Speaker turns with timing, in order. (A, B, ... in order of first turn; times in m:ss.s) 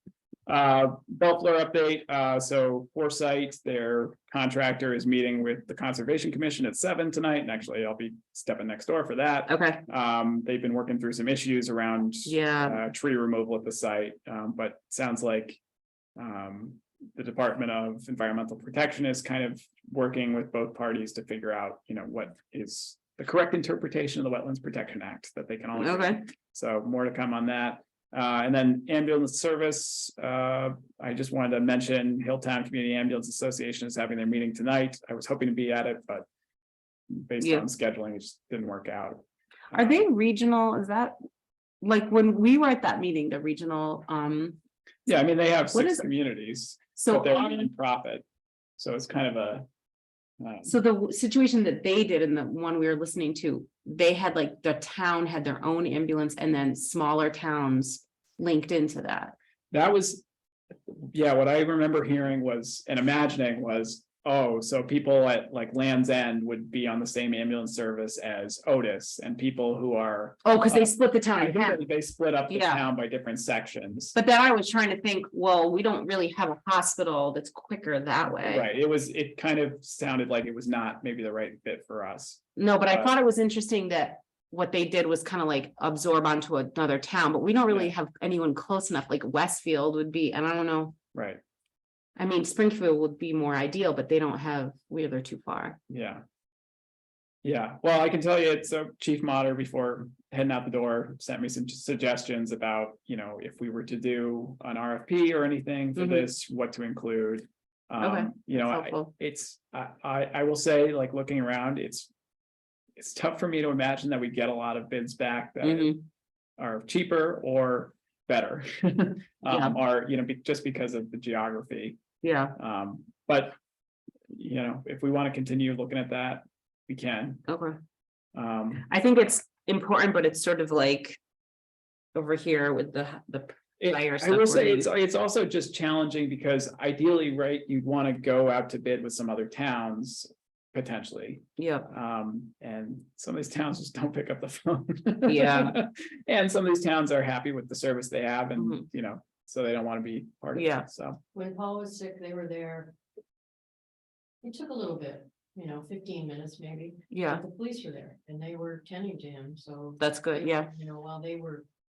0:00.5-0:15.6 A
0:09.5-0:09.8 B
0:12.2-0:12.8 B
0:16.2-0:36.3 A
0:25.7-0:26.2 B
0:37.1-0:40.0 A
0:37.4-0:37.6 B
0:39.7-0:41.2 B
0:41.8-0:44.6 B
0:45.0-0:48.2 A
0:45.7-0:46.1 B
0:47.0-0:47.7 B
0:48.8-0:49.6 A
0:50.4-0:50.8 A
0:50.6-0:59.3 B
0:59.7-1:00.2 A
1:00.9-1:14.1 A
1:10.4-1:11.8 B
1:12.5-1:12.8 B
1:14.1-1:18.7 B
1:18.4-1:23.1 A
1:22.6-1:31.0 B
1:31.1-1:31.4 A
1:32.2-1:35.8 B
1:35.9-1:36.2 A
1:37.4-1:52.1 A
1:46.0-1:46.3 B
1:48.0-1:49.1 B
1:53.0-1:56.0 A
1:55.6-1:56.0 B
1:56.6-2:02.0 A
1:59.5-1:59.8 B
2:02.2-2:02.5 B
2:02.6-2:03.6 A
2:04.3-2:07.4 A
2:07.5-2:07.8 B
2:08.3-2:08.9 A
2:08.8-2:11.2 B
2:12.1-2:14.9 B
2:13.8-2:31.2 A
2:21.6-2:21.9 B
2:25.2-2:25.8 B
2:28.6-2:28.8 B
2:30.5-2:30.9 B
2:31.3-2:32.9 C
2:34.4-2:41.6 C
2:37.1-2:37.4 B
2:40.0-2:40.7 B